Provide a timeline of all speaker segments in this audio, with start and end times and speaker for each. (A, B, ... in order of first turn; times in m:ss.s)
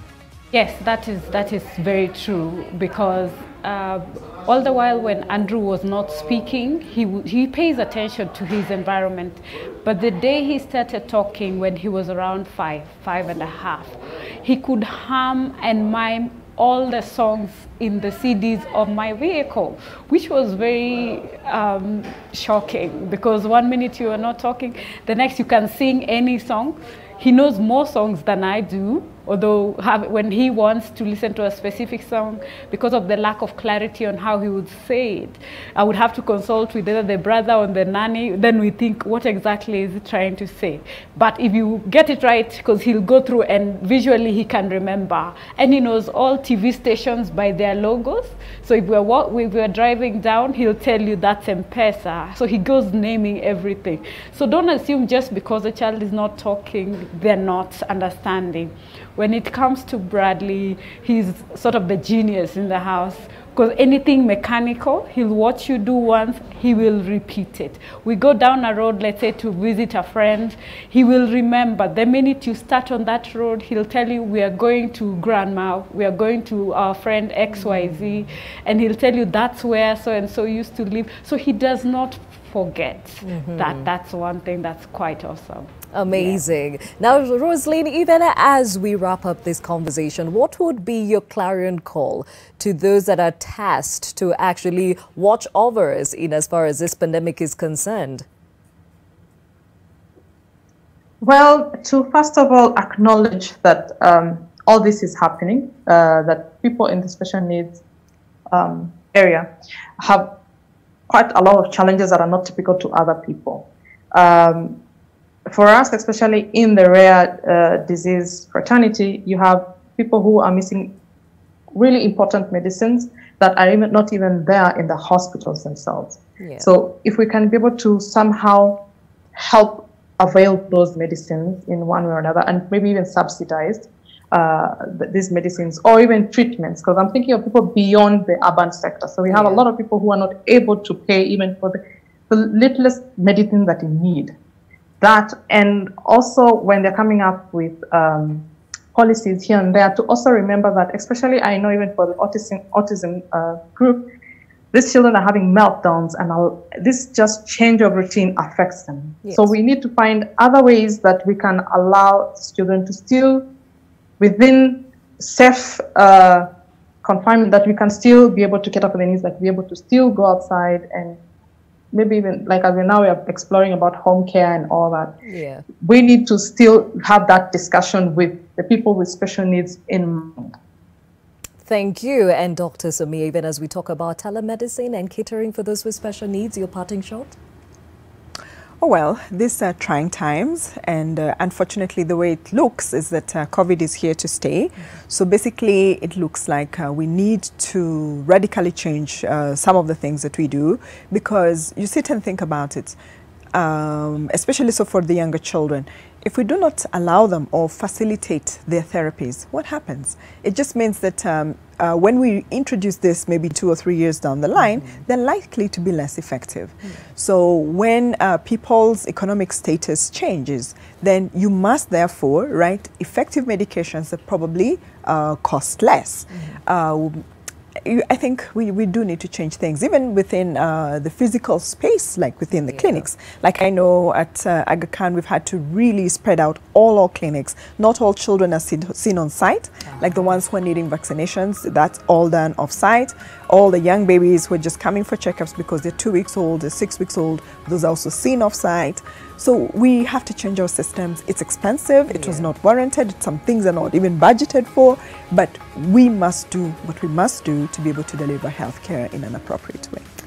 0:00.5-1:26.4 A
1:17.5-1:18.3 B
1:23.2-1:23.9 B
1:25.9-1:38.2 B
1:41.2-1:47.8 C
1:48.5-1:49.5 C
1:50.0-1:50.3 C
1:51.1-1:54.8 C
1:55.5-2:00.9 C
2:01.7-2:08.8 C
2:06.4-2:06.7 B
2:09.4-2:24.3 C
2:19.3-2:19.6 B
2:25.0-2:34.0 C
2:34.7-2:43.4 C
2:39.2-2:39.5 B
2:44.2-2:46.5 C
2:47.0-2:51.2 C
2:51.9-2:55.1 C
2:55.2-2:55.6 B
2:55.8-3:00.5 C
3:01.6-3:07.4 B
3:08.8-3:23.0 D
3:23.5-3:47.2 D
3:34.6-3:35.0 B
3:46.3-3:46.6 B
3:47.8-4:20.0 D
3:52.5-3:53.1 B
3:59.8-4:00.3 B
4:12.1-4:12.5 B